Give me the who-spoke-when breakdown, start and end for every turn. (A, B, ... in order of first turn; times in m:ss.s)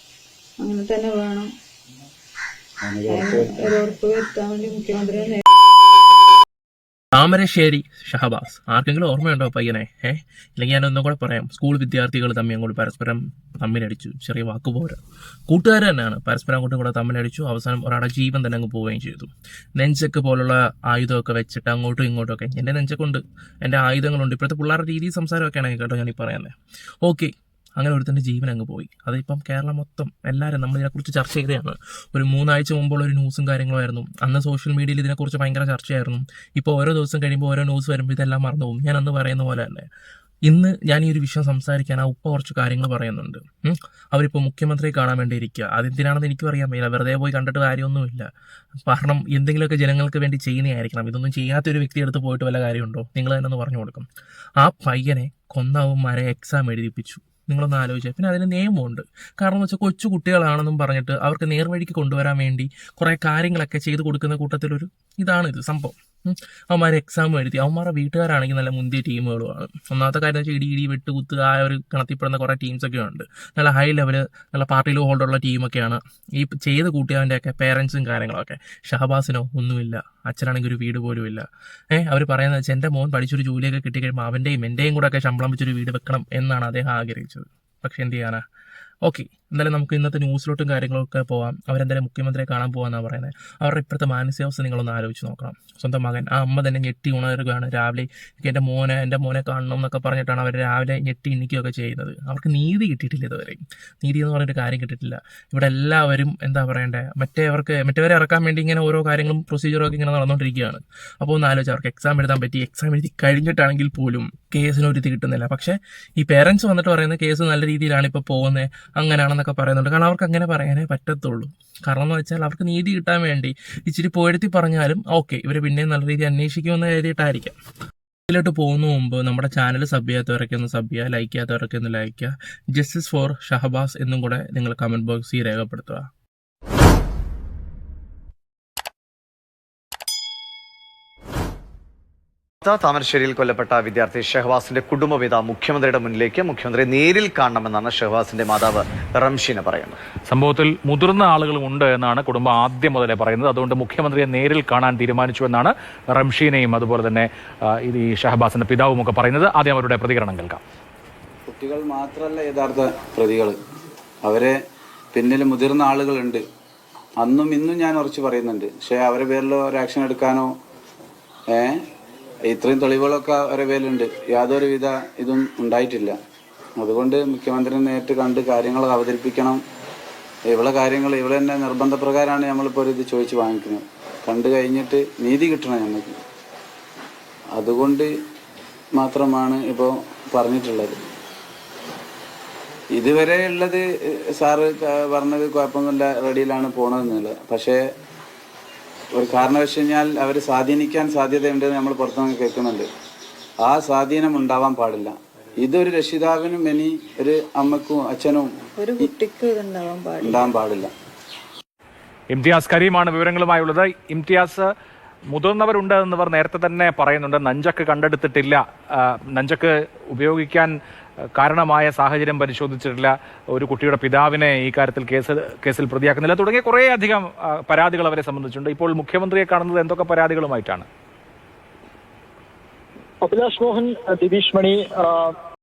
0:00.6-0:01.5 A
0:02.8-0:03.7 B
0:03.1-0:05.4 A
0:07.1-0:26.5 C
0:27.0-0:39.9 C
0:40.5-0:48.3 C
0:48.9-0:54.1 C
0:54.6-1:28.4 C
1:29.0-2:07.6 C
2:08.3-2:16.1 C
2:22.6-2:30.0 D
2:30.3-2:40.6 E
2:41.5-2:43.6 B
2:44.2-2:44.6 B
2:45.1-2:46.4 B
2:47.2-2:50.5 B
2:51.5-2:51.8 B
2:52.5-2:56.2 B
2:56.8-2:59.6 B
3:00.5-3:06.2 B
3:07.5-3:08.1 B
3:09.0-3:11.0 B
3:13.0-3:17.8 B
3:19.1-3:22.9 B
3:23.6-3:29.1 B
3:28.8-3:30.5 A
3:30.2-3:30.9 B
3:32.3-3:34.7 E
3:35.3-3:40.8 E
3:41.3-3:50.9 E
3:53.2-3:55.4 F